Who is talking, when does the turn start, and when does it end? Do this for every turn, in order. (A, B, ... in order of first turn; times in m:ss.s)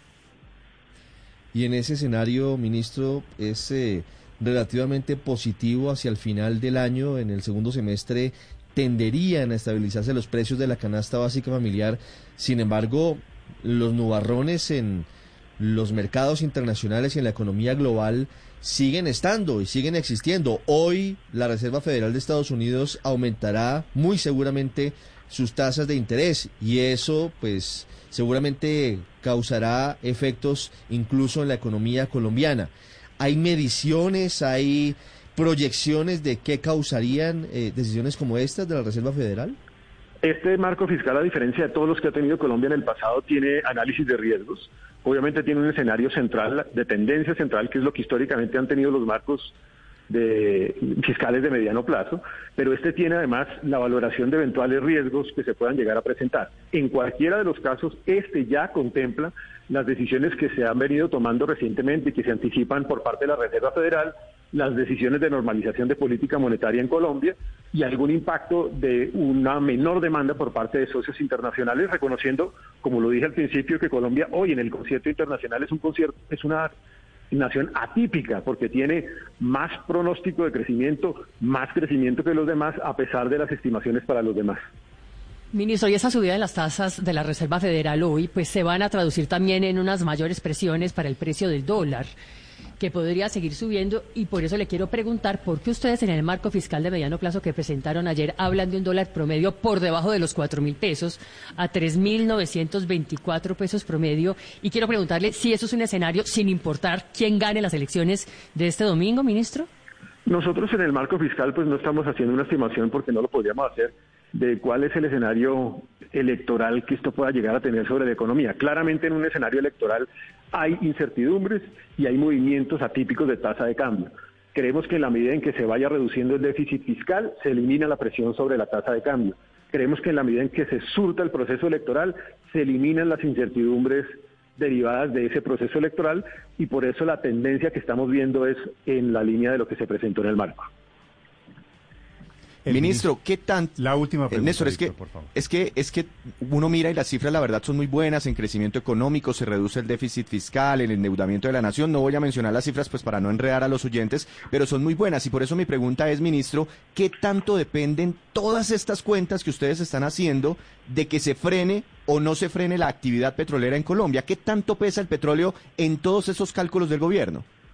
0:01.5-0:15.1 A
0:15.6-0:39.6 A
0:40.2-0:49.5 B
0:50.1-1:16.7 B
1:17.3-1:24.6 B
1:25.5-1:32.1 C
1:32.8-1:49.7 C
1:50.2-2:20.7 B
2:22.6-2:23.1 D
2:22.7-2:23.8 E
2:23.8-2:25.3 D
2:24.3-2:47.4 E